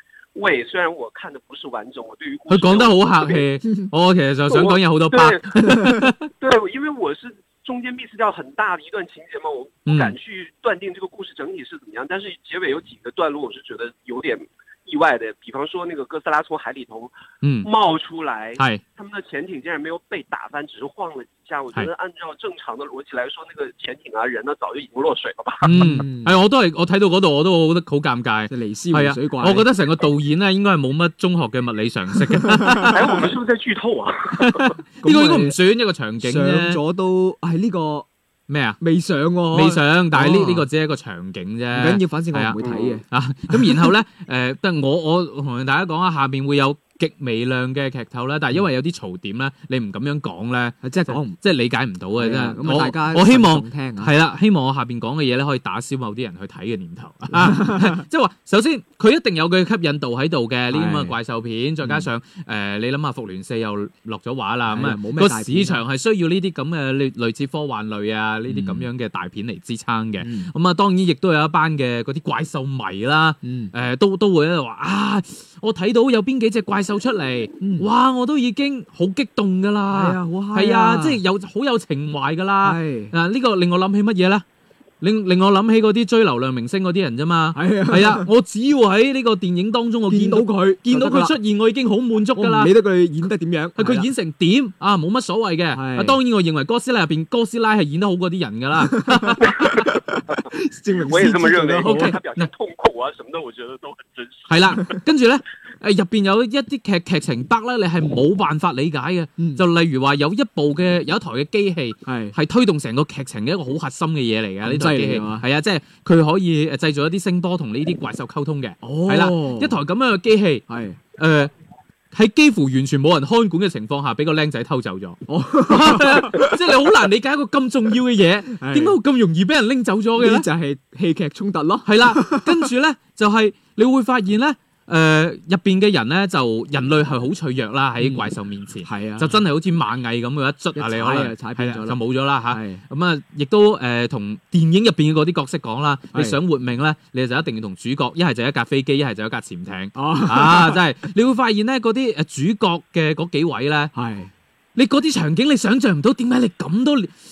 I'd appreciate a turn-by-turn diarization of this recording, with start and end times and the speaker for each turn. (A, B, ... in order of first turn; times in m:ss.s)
0:00.4-0:03.4 A
0:02.5-0:06.3 B
0:04.5-0:05.7 A
0:05.7-0:06.0 C
0:06.3-0:17.1 A
0:09.9-0:10.1 B
0:17.4-0:17.7 B
0:17.6-0:26.0 A
0:25.6-0:33.1 B
0:25.7-0:26.4 C
0:28.5-0:29.7 C
0:32.6-0:32.9 C
0:32.9-0:34.7 A
0:34.4-0:36.8 B
0:35.0-0:35.6 C
0:36.2-0:38.1 C
0:38.5-0:38.8 B
0:38.8-0:40.7 C
0:39.5-1:24.4 B
0:41.7-0:43.9 C
0:42.6-0:43.0 A
0:50.8-0:51.4 C
0:52.2-0:54.1 C
0:57.3-0:58.0 C
1:00.7-1:01.1 C
1:04.7-1:05.8 C
1:08.5-1:08.9 C
1:10.2-1:10.5 C
1:13.4-1:13.7 C
1:17.6-1:17.9 C
1:19.9-1:21.2 C
1:22.6-1:23.1 C
1:25.0-1:32.7 B
1:27.6-1:28.3 C
1:30.1-1:31.4 C
1:32.4-1:34.1 C
1:33.8-1:39.9 B
1:35.7-1:36.2 C
1:38.9-1:42.2 C
1:39.5-1:39.8 A
1:41.0-1:45.0 A
1:41.8-1:42.5 B
1:44.5-2:00.7 B
1:49.4-1:49.6 C
1:52.1-1:52.4 C
1:54.6-1:55.4 C
1:58.8-1:59.8 C
2:00.7-2:01.0 C
2:01.2-2:01.5 B
2:02.1-2:10.5 B
2:05.3-2:06.6 C
2:08.6-2:09.0 C
2:10.2-2:12.7 C
2:11.8-2:33.9 B
2:18.0-2:18.3 C
2:18.8-2:19.4 C
2:20.8-2:22.0 C
2:22.5-2:22.8 C
2:26.1-2:26.4 C
2:30.0-2:30.8 C
2:33.9-2:34.3 C
2:34.8-2:37.1 B